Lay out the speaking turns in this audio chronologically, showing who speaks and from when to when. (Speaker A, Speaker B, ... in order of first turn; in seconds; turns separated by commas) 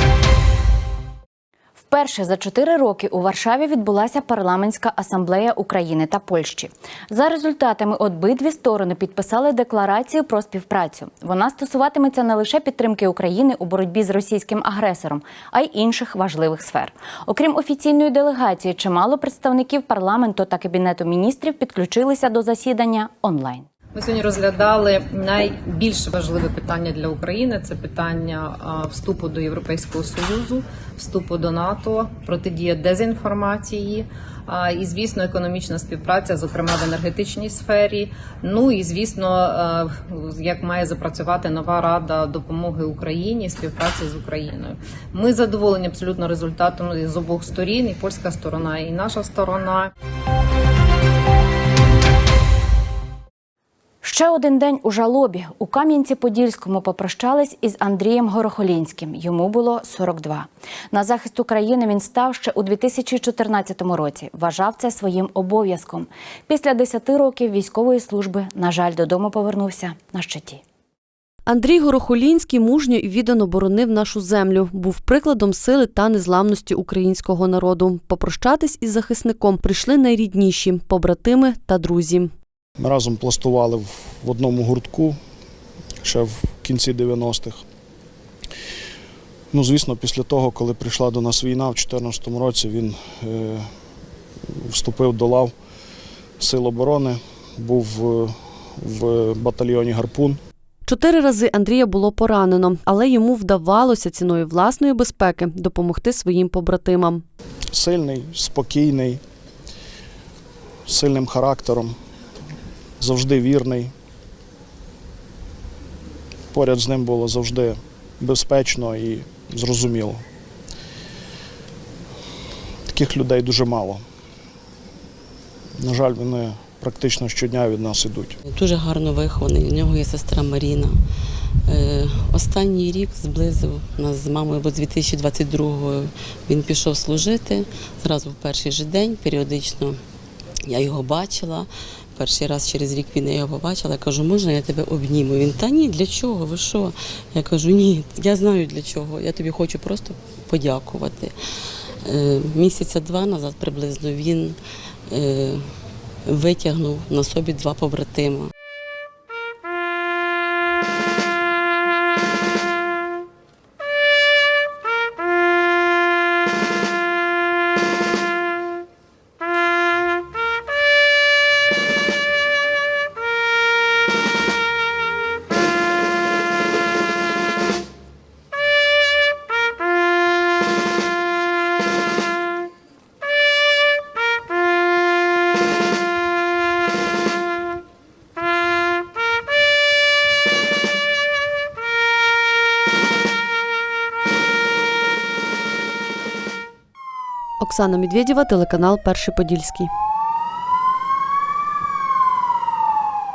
Speaker A: 1.8-23.6, Speaker B: 23.9-49.9, Speaker A: 54.0-70.6, Speaker C: 71.5-82.3, Speaker D: 82.8-85.2, Speaker D: 86.0-87.6, Speaker D: 89.5-93.7, Speaker D: 94.7-95.5, Speaker D: 96.4-100.4, Speaker C: 100.9-107.2, Speaker D: 107.7-109.2, Speaker D: 110.9-111.9, Speaker D: 113.0-113.9, Speaker D: 116.5-120.2, Speaker D: 122.8-124.0, Speaker D: 125.8-128.3, Speaker E: 128.4-131.0, Speaker E: 131.6-140.0, Speaker E: 140.7-151.4, Speaker E: 152.0-154.6, Speaker E: 155.1-158.5, Speaker C: 197.6-199.9